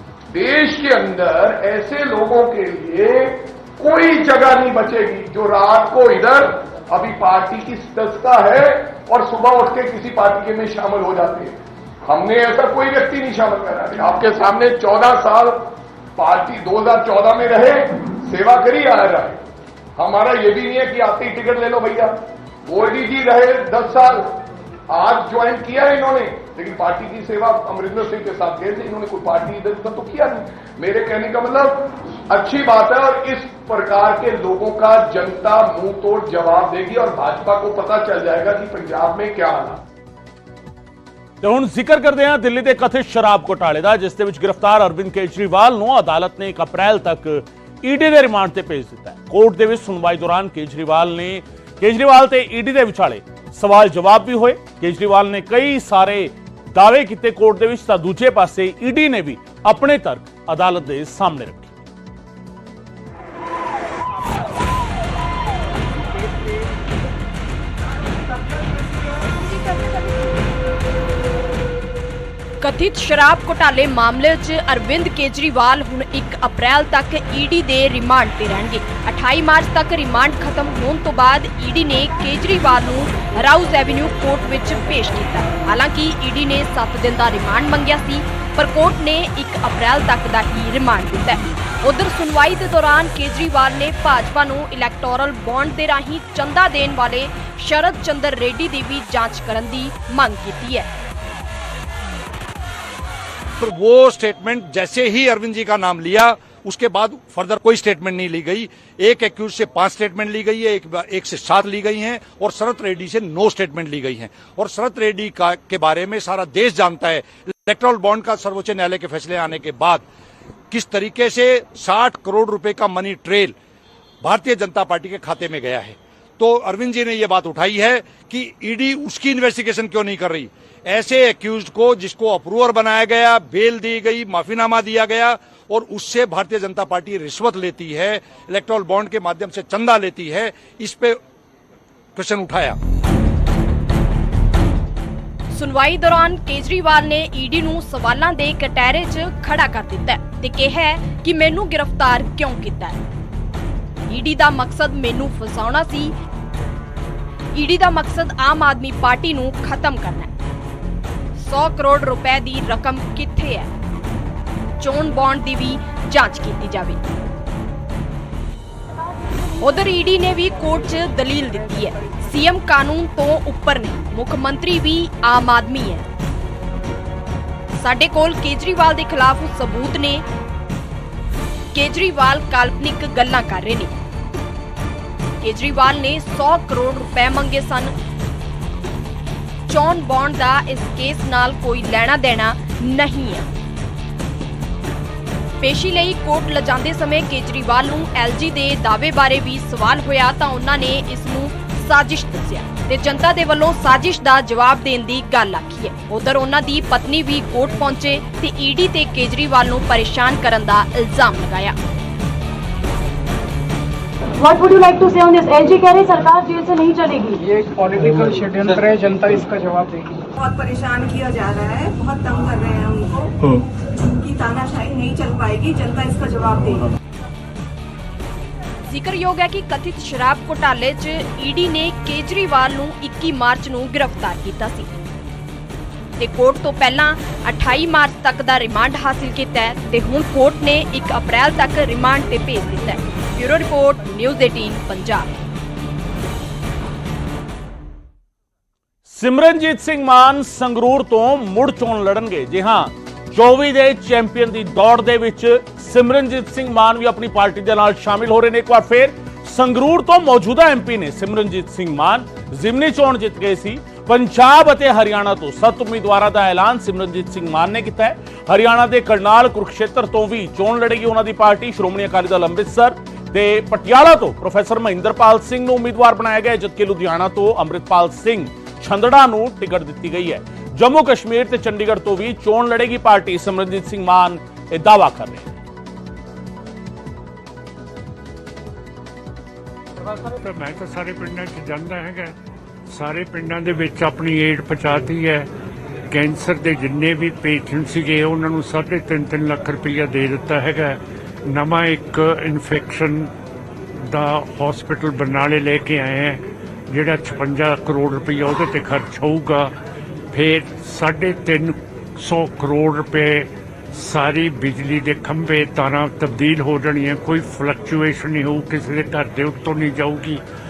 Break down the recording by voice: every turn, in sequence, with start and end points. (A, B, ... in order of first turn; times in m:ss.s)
0:00.3-0:19.4 A
0:20.0-0:39.8 A
0:41.4-1:01.7 B
1:08.6-1:10.3 C
1:12.6-1:40.9 D
1:43.6-2:00.1 E
2:00.7-2:03.6 E
2:04.2-2:21.2 E
2:22.2-2:22.8 E
2:25.5-2:33.0 D
2:34.1-2:36.1 D
2:37.6-2:40.3 D
2:41.4-2:43.7 D
2:44.8-2:47.0 D
2:49.6-2:56.0 D
2:57.8-3:00.2 D
3:01.7-3:03.9 D
3:05.4-3:07.9 D
3:09.7-3:13.5 D
3:15.6-3:31.8 D
3:34.4-3:37.4 C
3:37.4-3:40.2 F
3:40.4-3:43.4 C
3:44.0-3:46.9 C
3:48.9-3:54.9 D
3:56.2-4:05.3 D
4:09.1-4:45.6 B
4:50.1-4:52.4 G
4:52.9-4:55.5 G
4:56.1-5:03.3 G
5:04.0-5:09.7 G
5:10.3-5:20.4 G